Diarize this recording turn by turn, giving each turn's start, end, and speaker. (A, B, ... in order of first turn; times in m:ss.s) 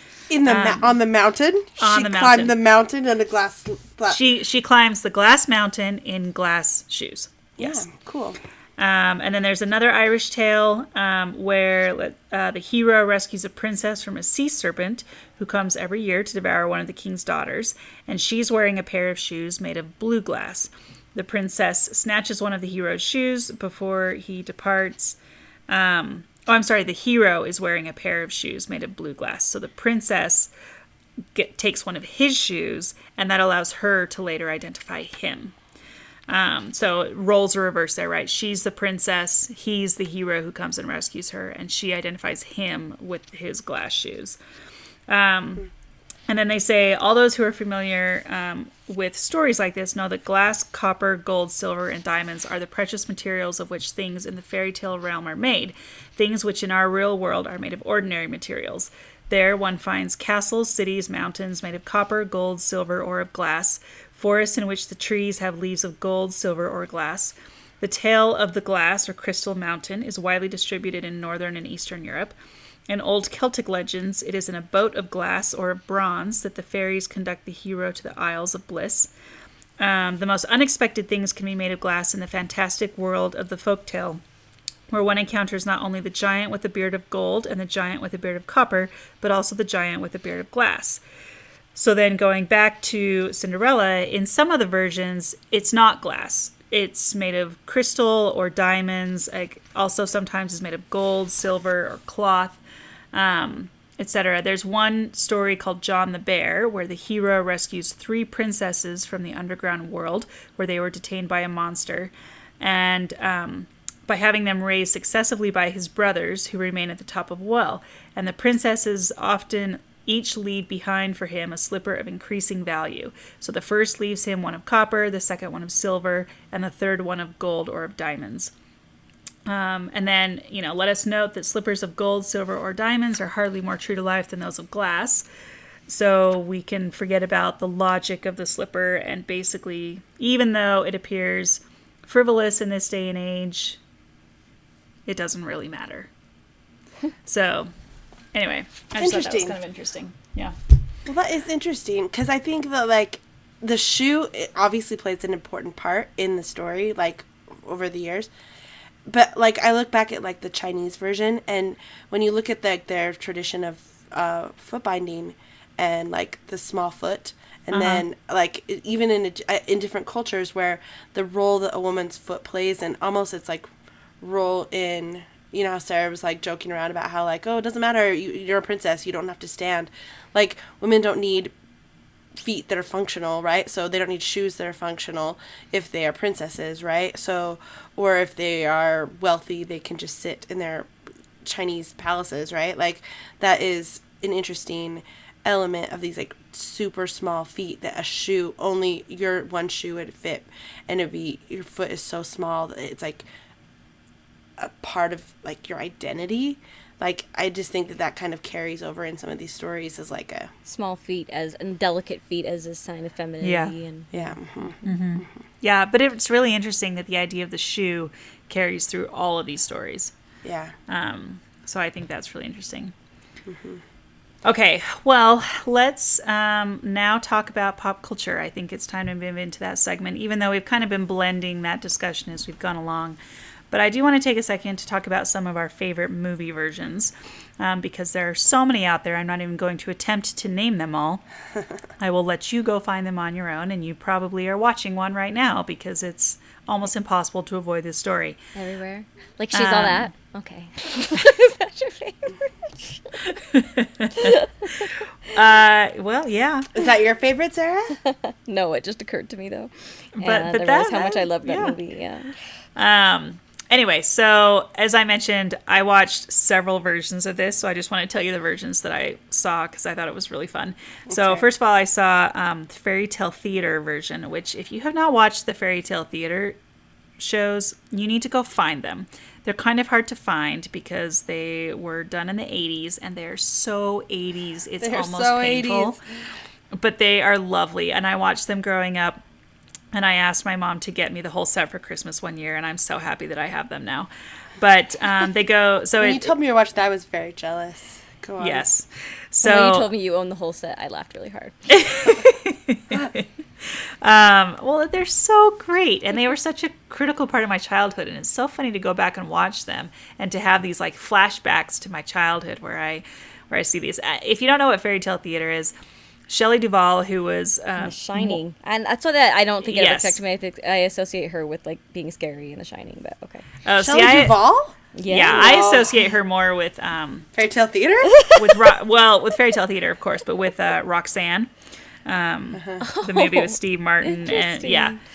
0:00.3-0:04.2 A
0:00.4-0:01.0 B
0:01.8-0:02.6 B
0:04.1-0:07.8 B
0:07.6-0:08.4 A
0:08.8-0:25.2 B
0:25.7-0:30.5 B
0:31.3-0:35.5 B
0:36.3-0:44.4 B
0:45.1-0:45.7 B
0:46.3-1:12.3 B
1:12.9-1:19.1 B
1:19.8-1:24.2 B
1:24.9-1:31.0 B
1:31.7-1:42.6 B
1:43.1-2:08.5 B
2:09.4-2:15.2 B
2:15.9-2:23.8 B
2:25.0-2:26.1 B
2:27.2-2:27.7 B
2:28.3-2:30.5 B
2:29.0-2:29.6 A
2:31.0-2:38.3 A
2:39.0-2:53.7 A
2:47.7-2:48.0 B
2:54.2-3:01.5 A
3:02.3-3:10.9 A
3:11.4-3:23.2 A
3:24.6-3:30.5 A
3:30.6-3:34.4 C
3:33.4-3:33.7 B
3:34.1-3:34.8 A
3:34.8-3:40.1 B
3:40.4-3:40.7 A
3:40.9-3:42.9 B
3:43.4-3:43.8 A
3:44.4-3:53.2 B
3:53.7-4:01.2 B
4:02.0-4:08.4 B
4:08.5-4:13.2 C
4:09.5-4:10.1 B
4:13.2-4:16.7 B
4:14.2-4:15.0 C
4:16.7-4:18.0 A
4:17.9-4:22.4 C
4:20.2-4:21.8 B
4:22.8-4:36.6 B
4:31.1-4:31.4 A
4:37.2-4:46.0 B
4:44.8-4:46.0 A
4:46.7-4:49.2 B
4:49.9-4:56.3 B
4:56.0-4:58.6 A
4:58.4-4:59.9 B
4:59.4-5:01.6 C
5:01.7-5:15.7 B
5:16.3-5:18.4 B
5:17.8-5:23.4 C
5:19.6-5:20.2 B
5:23.6-5:24.4 B
5:23.8-5:24.8 A
5:24.9-5:25.5 C
5:25.1-5:27.3 B
5:25.3-5:26.0 A
5:27.3-5:28.4 A
5:28.3-5:31.5 B
5:32.0-5:35.0 B
5:32.8-5:35.0 C